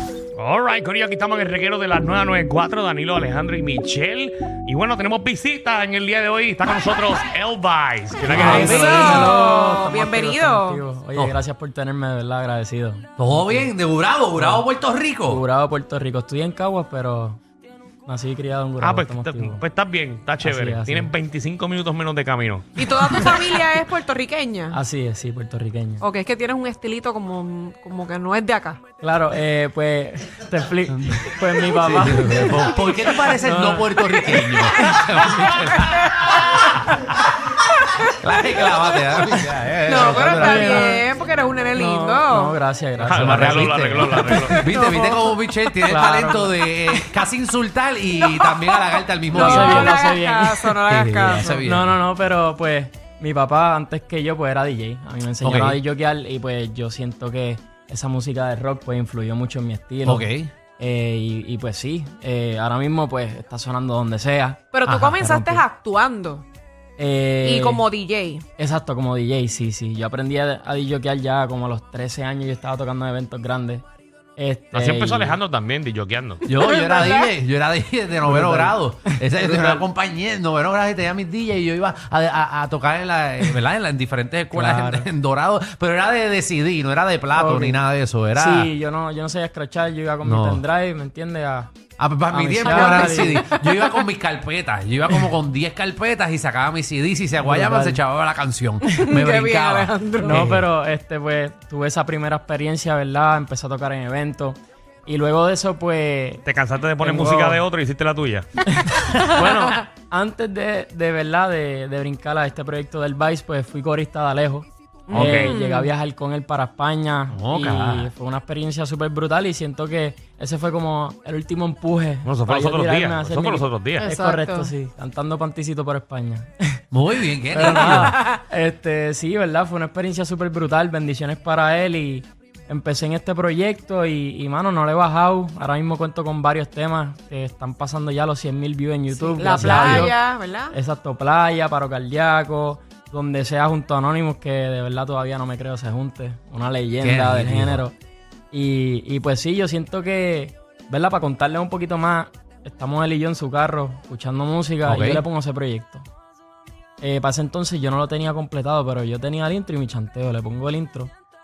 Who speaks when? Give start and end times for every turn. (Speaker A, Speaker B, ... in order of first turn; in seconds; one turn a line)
Speaker A: 0.4-9.3
Speaker B: 8.3-13.7
Speaker C: 8.3-10.8
Speaker D: 13.2-15.4
Speaker B: 14.3-14.6
Speaker B: 15.2-17.4
Speaker B: 18.0-19.6
Speaker A: 18.8-22.7
Speaker B: 20.4-21.1
Speaker C: 22.8-24.8
Speaker B: 24.7-26.0
Speaker C: 26.0-28.8
Speaker B: 29.0-34.2
Speaker D: 31.8-37.3
Speaker C: 36.0-36.8
Speaker C: 37.8-38.1
Speaker D: 38.1-41.0
Speaker C: 39.9-42.5
Speaker B: 40.3-41.0
Speaker B: 41.7-44.8
Speaker A: 43.0-44.6
Speaker D: 43.1-49.9
Speaker C: 44.7-45.4
Speaker B: 45.8-46.6
Speaker C: 48.2-51.6
Speaker B: 49.3-50.8
Speaker D: 50.8-52.0
Speaker B: 51.4-65.6
Speaker D: 55.4-55.8
Speaker D: 60.0-60.5
Speaker C: 64.7-66.4
Speaker B: 67.0-67.8
Speaker C: 67.4-68.4
Speaker B: 68.6-73.8
Speaker B: 74.4-75.4
Speaker A: 74.7-76.5
Speaker D: 76.4-88.7
Speaker B: 78.2-79.8
Speaker B: 84.5-85.1
Speaker B: 87.3-87.8
Speaker B: 88.3-91.7
Speaker D: 90.2-90.6
Speaker D: 92.0-100.7
Speaker B: 92.3-93.4
Speaker C: 92.7-93.9
Speaker B: 97.4-98.0
Speaker C: 98.9-100.4
Speaker B: 100.2-106.4
Speaker A: 106.4-108.5
Speaker B: 107.0-107.6
Speaker B: 108.8-126.8
Speaker C: 115.1-115.9
Speaker A: 115.1-115.5
Speaker D: 117.3-118.1
Speaker A: 122.2-124.1
Speaker C: 124.0-124.7
Speaker D: 126.9-128.2
Speaker B: 127.5-140.2
Speaker C: 139.2-140.8
Speaker D: 139.5-140.1
Speaker B: 140.7-147.9
Speaker D: 147.0-147.8
Speaker B: 148.5-156.1
Speaker D: 154.8-155.2
Speaker B: 157.0-161.1